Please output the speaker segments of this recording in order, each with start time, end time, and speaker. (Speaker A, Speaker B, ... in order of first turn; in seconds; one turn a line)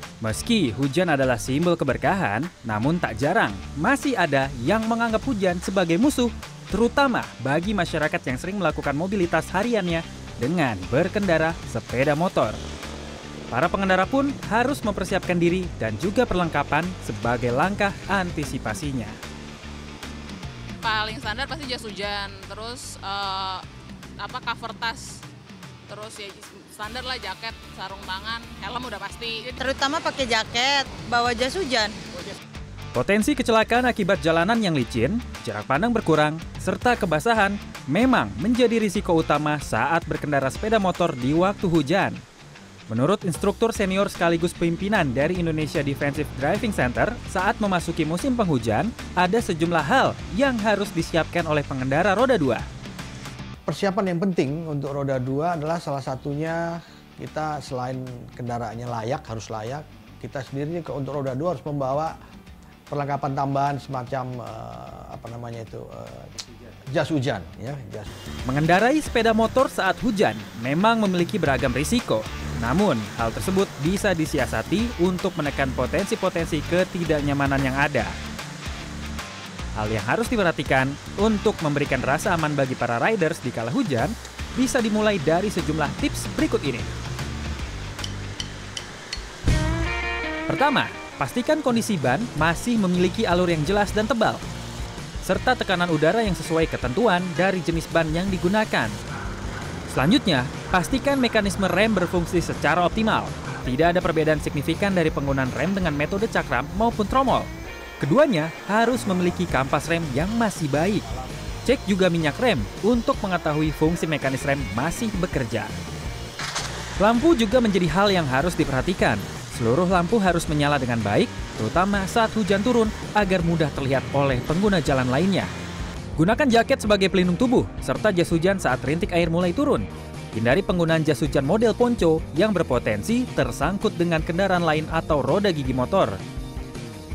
Speaker A: 0.2-12.6
Speaker A: 13.5-19.1
Speaker B: 20.8-23.6
Speaker B: 24.2-25.2
Speaker B: 25.9-29.5
Speaker C: 29.5-32.0
Speaker A: 32.9-42.2
Speaker A: 42.9-52.6
Speaker D: 53.7-62.1
Speaker D: 62.9-68.1
Speaker A: 68.5-78.2
Speaker A: 79.8-86.9
Speaker A: 90.5-94.4
Speaker A: 95.2-98.9
Speaker A: 99.9-107.5
Speaker A: 108.0-111.0
Speaker A: 111.6-115.7
Speaker A: 117.0-125.5
Speaker A: 126.2-136.2